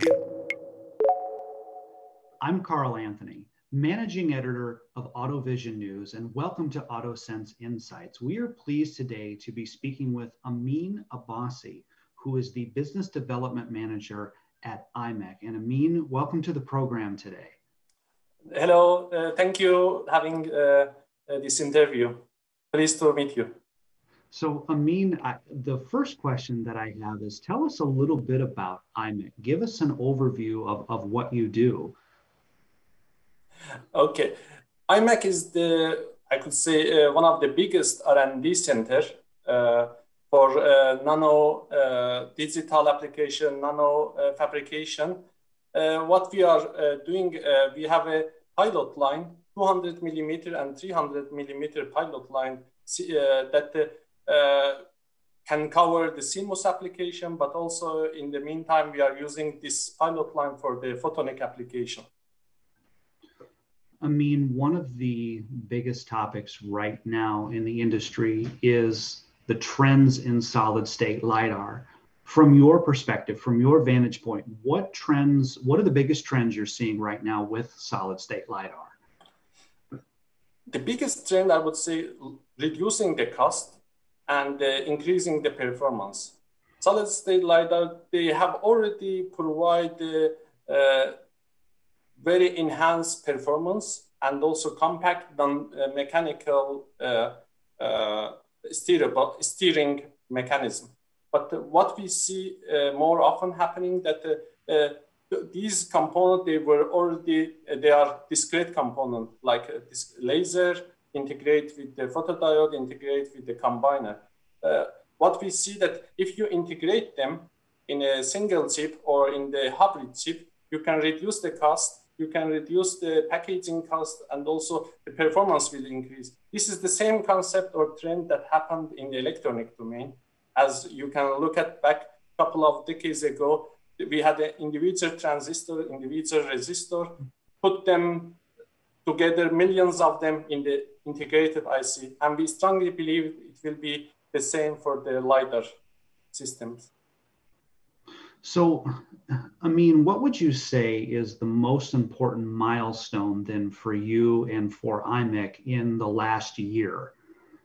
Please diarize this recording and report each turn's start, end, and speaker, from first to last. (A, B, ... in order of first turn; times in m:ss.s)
0:02.4-0:17.5 A
0:18.5-0:23.5 B
0:24.3-0:31.9 A
0:33.9-0:34.3 B
0:34.9-0:45.2 B
0:45.7-0:54.8 B
0:55.4-1:02.0 B
1:04.0-1:18.9 A
1:20.7-1:31.2 B
1:32.2-2:18.4 B
2:19.0-2:25.7 B
2:26.3-2:26.9 B
2:28.4-2:37.1 A